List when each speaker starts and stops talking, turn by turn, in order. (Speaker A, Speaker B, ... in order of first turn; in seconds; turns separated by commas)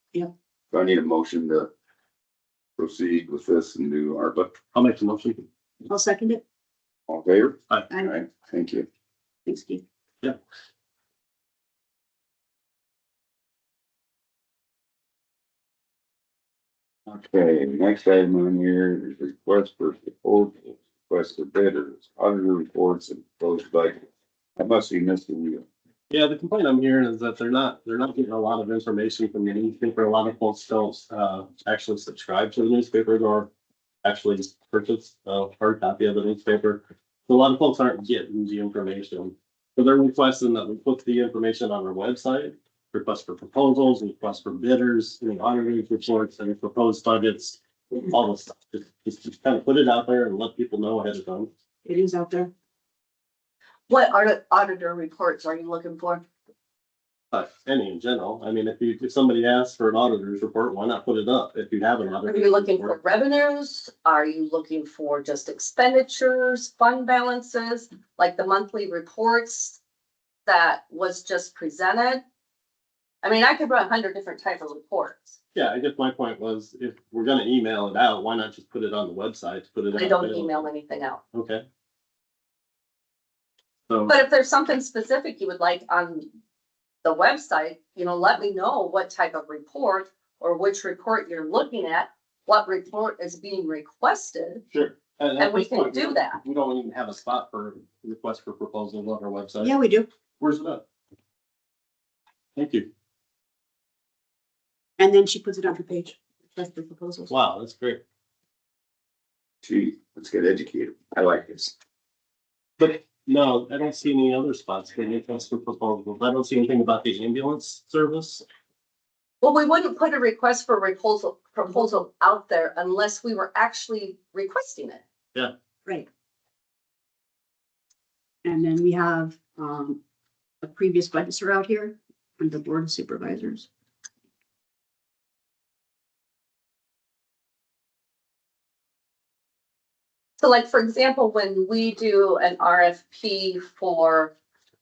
Speaker A: 0.7-1.7, Speaker A: 2.8-4.5, Speaker B: 4.7-5.5, Speaker C: 5.9-6.4, Speaker A: 7.1-8.9, Speaker C: 9.5-9.8, Speaker A: 17.1-24.1, Speaker A: 24.6-25.6, Speaker B: 26.1-33.5, Speaker B: 34.0-51.5, Speaker C: 51.9-52.5, Speaker D: 53.9-56.2, Speaker B: 57.3-63.0, Speaker D: 62.2-69.8, Speaker D: 70.5-72.2, Speaker D: 73.2-75.4, Speaker B: 75.5-80.7, Speaker D: 79.9-81.2, Speaker B: 81.3-81.6, Speaker B: 83.9-84.2, Speaker D: 84.1-86.3, Speaker D: 87.0-94.6, Speaker B: 94.7-99.8, Speaker D: 95.4-96.4, Speaker C: 99.6-100.1, Speaker B: 100.4-100.8, Speaker B: 102.5-102.9, Speaker C: 105.0-107.3, Speaker B: 107.3-108.0, Speaker A: 109.6-111.7, Speaker B: 112.8-118.5, Speaker D: 119.4-125.0, Speaker C: 128.4-130.0, Speaker C: 130.6-133.7, Speaker D: 140.4-144.3